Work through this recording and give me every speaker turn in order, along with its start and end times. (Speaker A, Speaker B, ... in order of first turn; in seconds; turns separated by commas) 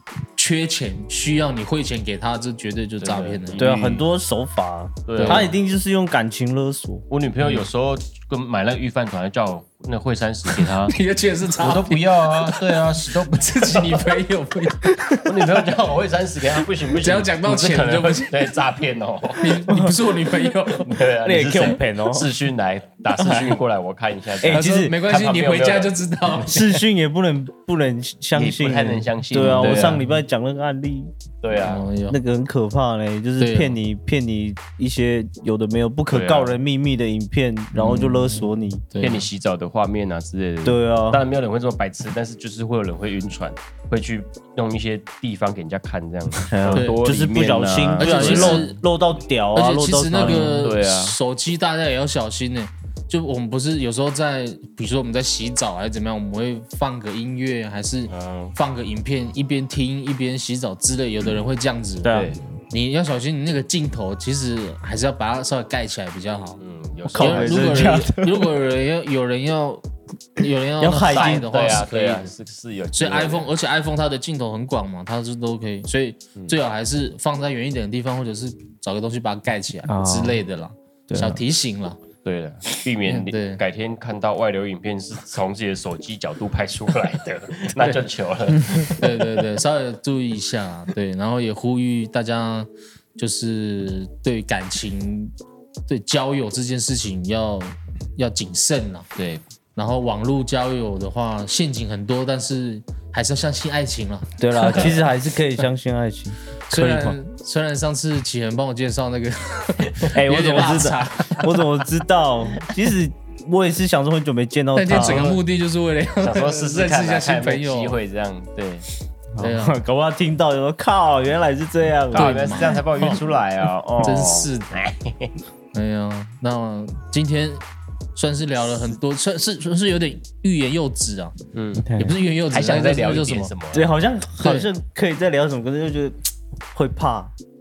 Speaker A: 0.4-3.7, Speaker B: 3.0-4.0, Speaker C: 3.6-7.0, Speaker B: 5.1-5.5, Speaker A: 5.2-5.5, Speaker B: 7.1-10.9, Speaker A: 10.6-14.9, Speaker B: 11.6-14.2, Speaker C: 14.9-15.4, Speaker B: 15.2-19.6, Speaker A: 16.9-18.5, Speaker A: 19.4-20.9, Speaker C: 19.7-20.5, Speaker B: 20.8-26.0, Speaker C: 21.2-22.3, Speaker C: 23.2-23.6, Speaker C: 24.4-25.0, Speaker A: 24.5-26.8, Speaker C: 26.4-31.1, Speaker B: 28.3-30.0, Speaker A: 29.5-30.1, Speaker B: 31.4-31.9, Speaker A: 31.6-32.2, Speaker C: 32.1-38.9, Speaker A: 33.4-33.8, Speaker B: 36.1-36.5, Speaker A: 37.7-39.3, Speaker B: 39.0-48.7, Speaker C: 40.6-41.2, Speaker C: 46.5-50.7, Speaker A: 48.0-48.8, Speaker A: 49.5-62.2, Speaker B: 50.2-51.2, Speaker B: 58.1-58.5, Speaker C: 62.0-62.4, Speaker B: 62.1-62.4, Speaker A: 62.7-66.6, Speaker B: 66.6-68.0, Speaker C: 67.1-68.5, Speaker A: 67.2-72.3, Speaker C: 70.8-71.5, Speaker B: 71.1-73.5, Speaker A: 72.9-82.0, Speaker C: 79.9-80.4, Speaker C: 81.1-81.4, Speaker B: 82.2-89.2, Speaker A: 83.1-83.6, Speaker A: 89.0-95.3, Speaker A: 95.9-99.1, Speaker B: 99.2-99.4, Speaker A: 99.8-105.1, Speaker C: 104.4-107.2, Speaker A: 106.7-111.8, Speaker C: 110.1-115.4, Speaker A: 114.7-118.0, Speaker B: 114.9-115.4, Speaker B: 116.2-118.8, Speaker C: 119.4-122.8, Speaker A: 119.4-119.8, Speaker B: 122.1-125.3, Speaker A: 122.1-123.2, Speaker A: 124.0-124.8, Speaker A: 125.7-127.6, Speaker A: 128.1-131.4, Speaker B: 131.5-131.9, Speaker C: 131.8-132.2, Speaker A: 131.9-133.5, Speaker B: 132.5-133.9, Speaker C: 133.7-136.2, Speaker A: 134.4-134.7, Speaker C: 136.7-137.3